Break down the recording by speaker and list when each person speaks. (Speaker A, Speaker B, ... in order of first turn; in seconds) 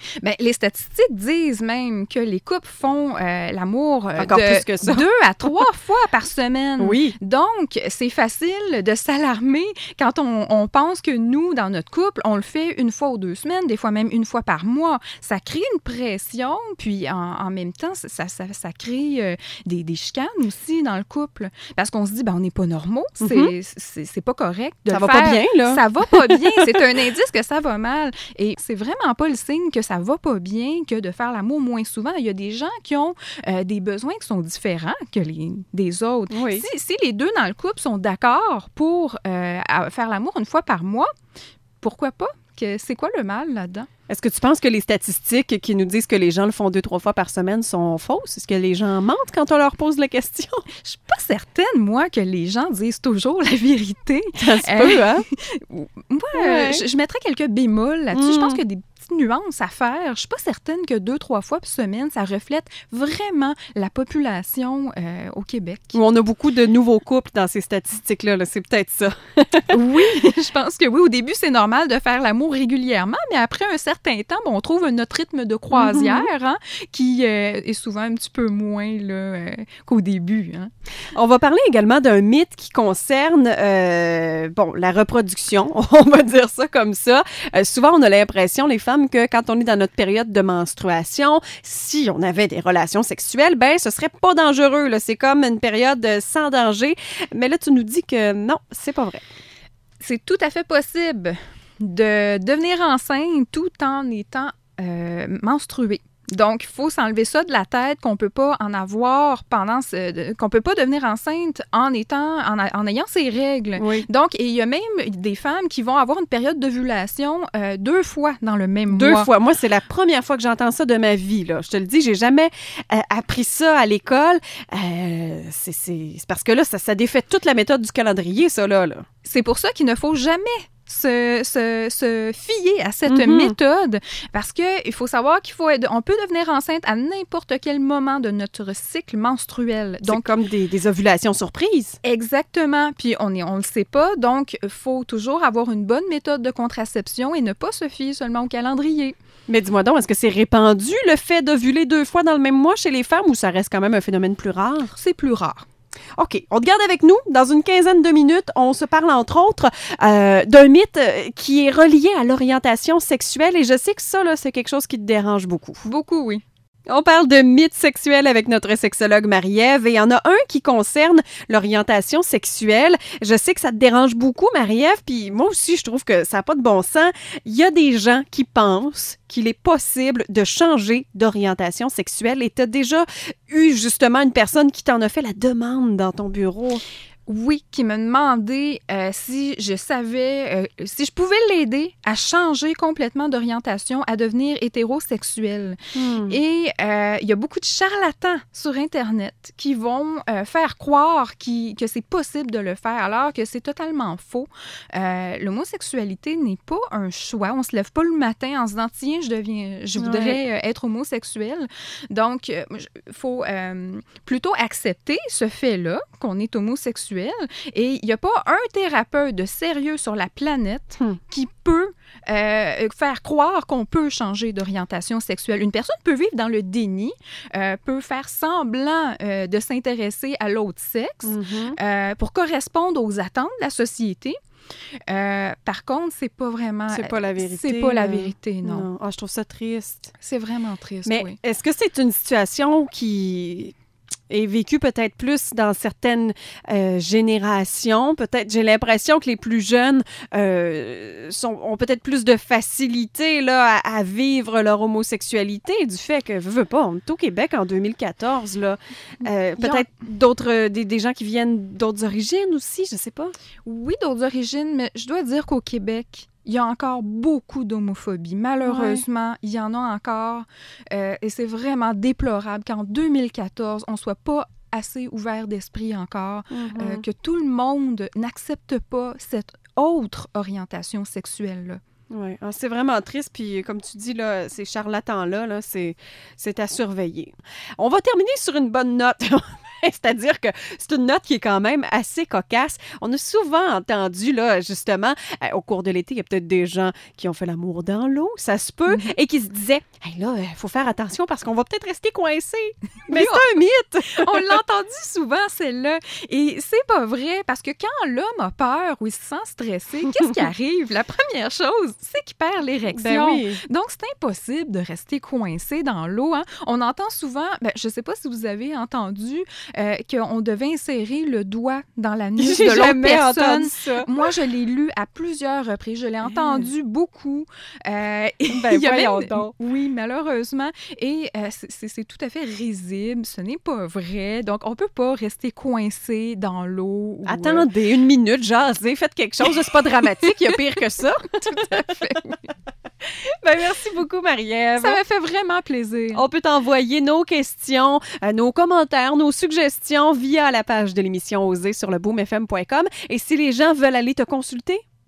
Speaker A: 0.2-41.1, 41.8-43.9, 50.8-65.9, 69.7-80.7, 100.0-119.3, 129.2-140.3, 142.0-149.1, 154.9-155.6, 165.8-166.4, 187.3-234.4, 235.1-238.9, 240.2-241.4, 259.6-259.9, 263.6-281.8, 298.9-299.1, 303.1-303.4, 304.1-337.6, 341.4-342.4, 344.8-346.2
Speaker B: 4.2-5.1, 6.8-7.1, 23.2-23.5, 24.9-26.8, 36.3-36.6, 44.1-50.7, 54.4-55.2, 56.3-56.8, 58.1-58.6, 65.9-69.8, 75.7-76.3, 81.1-99.2, 113.8-114.1, 118.9-129.1, 133.1-133.6, 140.0-142.0, 149.5-154.9, 156.2-165.8, 166.9-186.8, 195.9-196.4, 210.0-210.4, 231.2-231.8, 236.9-240.1, 241.1-243.7, 244.3-263.3, 268.6-269.0, 276.5-277.0, 282.1-304.4, 312.9-313.6, 322.4-324.1, 326.2-326.7, 328.5-329.5, 337.2-342.0, 343.0-345.0, 346.1-354.8